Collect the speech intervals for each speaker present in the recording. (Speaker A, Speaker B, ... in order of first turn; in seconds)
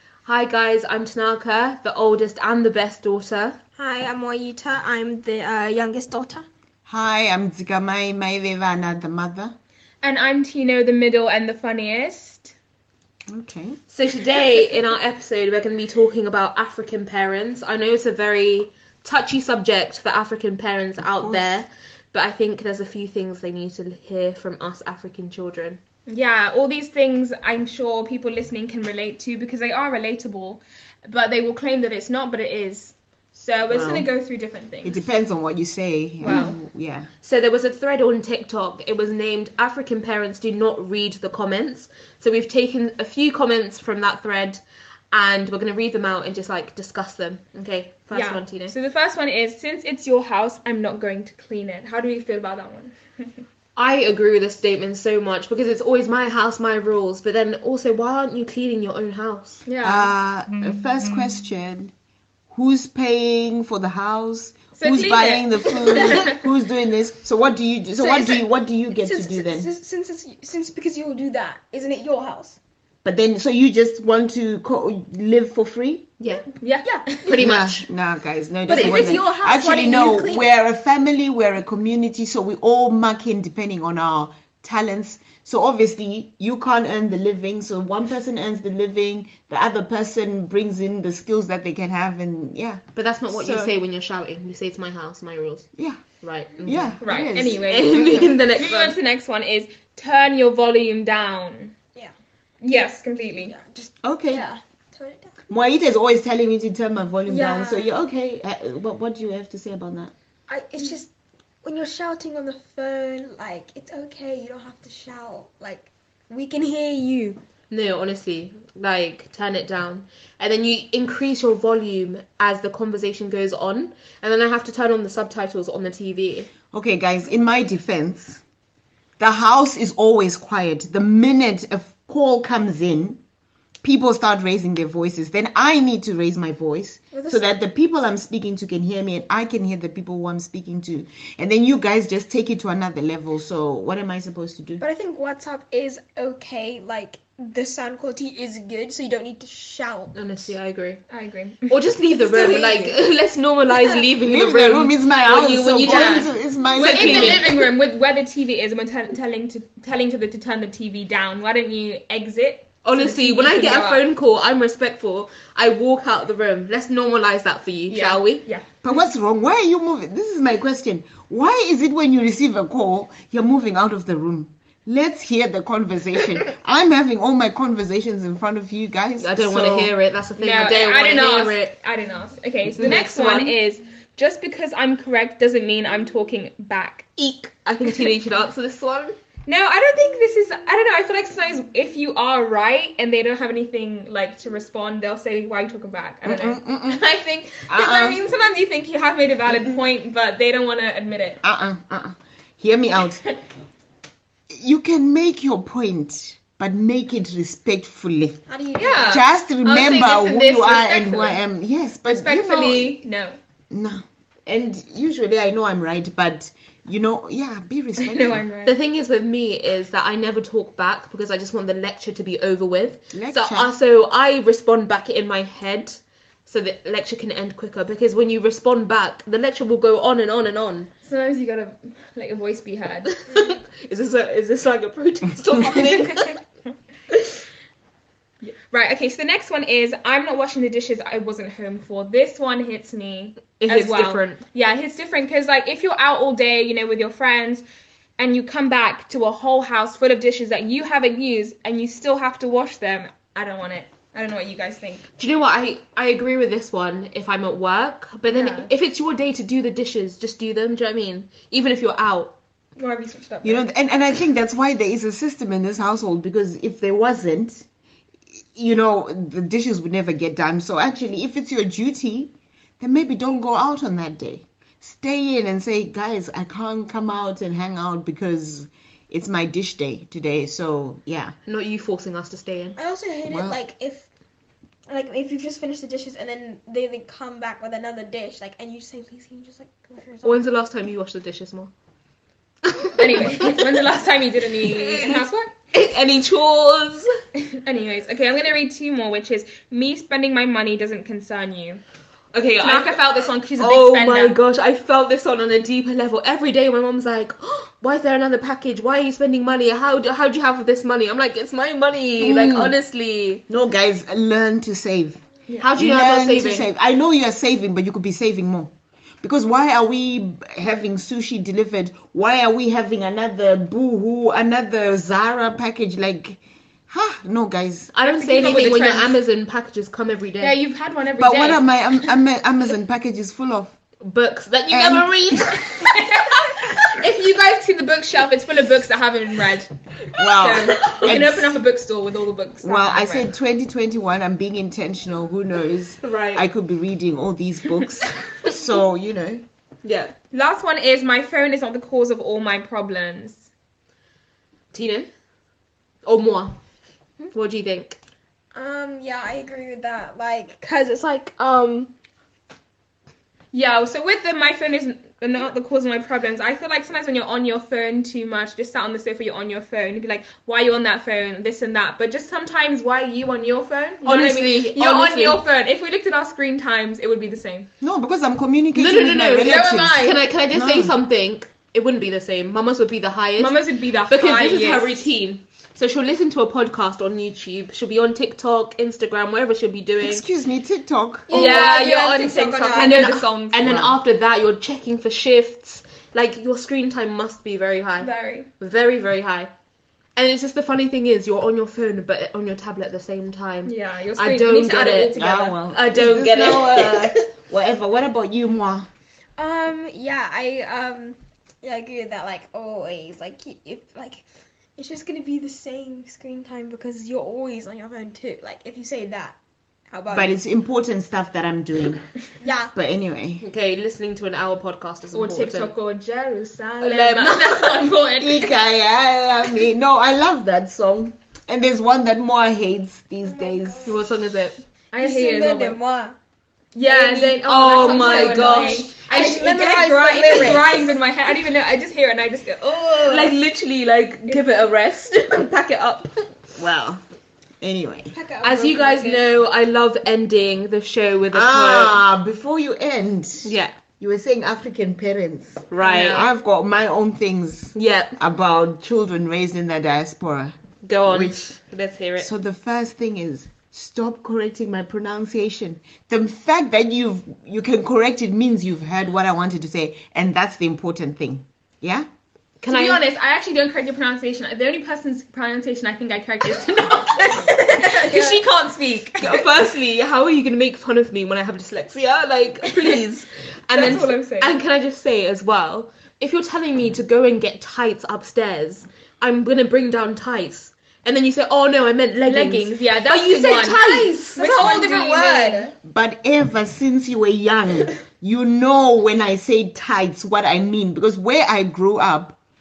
Speaker A: 0.3-3.6, 13.9-25.8, 37.2-44.6, 45.1-48.7, 53.8-59.6, 76.2-76.5, 77.3-77.9, 78.7-79.2, 93.0-95.7, 96.2-97.0, 97.6-99.0, 117.7-126.5, 150.1-151.0, 151.7-157.6, 162.8-168.4, 179.2-181.7, 182.7-183.6, 187.2-189.2, 209.6-211.2, 218.7-230.9, 233.3-236.3, 243.6-244.4, 255.2-262.4, 281.5-282.8, 290.2-291.7, 292.7-293.7, 294.6-297.1, 302.3-303.0, 303.6-313.4, 315.6-316.7, 327.9-330.6, 334.0-335.9, 340.4-341.1, 346.0-346.4, 349.8-350.1, 354.7-355.1, 356.1-356.6, 357.3-358.0, 374.0-375.4, 378.8-390.3, 391.4-391.7, 392.7-399.5, 400.2-405.1, 405.7-407.3, 423.4-425.7, 426.8-427.9, 433.9-434.6, 437.2-439.0, 443.0-446.3, 448.4-452.0, 453.4-453.8, 455.7-456.3, 457.8-458.1, 460.8-462.3, 472.6-473.0, 478.1-478.4, 479.1-494.9
Speaker B: 3.8-6.5, 68.0-72.6, 78.7-80.5, 103.1-105.4, 107.3-108.0, 110.5-111.1, 111.6-117.4, 137.1-137.5, 144.8-150.3, 152.2-152.9, 153.7-154.0, 208.5-209.2, 282.8-284.1, 284.9-290.4, 358.5-361.9, 391.3-393.1, 409.4-419.4, 419.9-420.4, 422.4-422.7, 433.2-434.0, 435.0-436.2, 436.9-440.9, 448.1-449.2, 477.5-478.4, 494.4-495.7
Speaker C: 6.9-9.5, 13.3-13.8, 21.0-21.6, 33.7-34.1, 34.8-37.1, 59.8-61.9, 62.5-69.7, 73.0-76.1, 77.4-93.7, 95.8-96.0, 96.6-98.3, 104.0-104.5, 105.5-110.1, 126.7-128.4, 129.2-133.2, 133.8-144.8, 154.2-157.6, 168.8-179.9, 196.2-197.0, 197.7-198.2, 201.4-203.2, 204.5-208.4, 209.1-213.0, 213.7-218.4, 223.1-223.7, 263.4-267.7, 268.5-281.4, 283.3-283.6, 312.2-312.8, 313.5-315.2, 315.7-318.7, 319.2-327.9, 331.2-333.8, 334.7-335.4, 340.2-341.6, 342.6-349.4, 377.8-381.0, 390.0-391.5, 393.6-394.0, 405.2-408.9, 420.1-422.1, 422.7-423.4, 428.2-434.0, 446.6-447.0, 447.6-448.1, 451.3-461.4, 462.2-472.1, 495.8-502.4
Speaker D: 10.0-12.5, 26.1-35.0, 36.2-36.6, 48.1-53.3, 59.7-60.1, 64.8-66.3, 76.6-77.3, 97.0-101.7, 102.6-103.5, 151.1-151.8, 155.8-164.1, 167.9-168.7, 180.4-187.1, 189.5-201.4, 208.8-209.3, 210.0-211.4, 212.1-213.4, 218.0-218.8, 231.0-233.2, 235.6-236.4, 238.4-247.6, 248.2-255.1, 258.3-258.7, 262.8-263.7, 292.9-295.5, 297.4-301.8, 302.6-304.4, 328.0-329.2, 330.4-332.1, 335.8-339.7, 340.4-343.3, 350.3-353.5, 363.5-377.7, 379.4-380.2, 383.4-385.0, 391.3-393.7, 398.0-398.5, 403.6-405.6, 425.1-428.6, 434.9-435.8, 436.8-443.3, 455.8-456.2, 472.7-479.5, 483.7-484.6, 492.2-495.7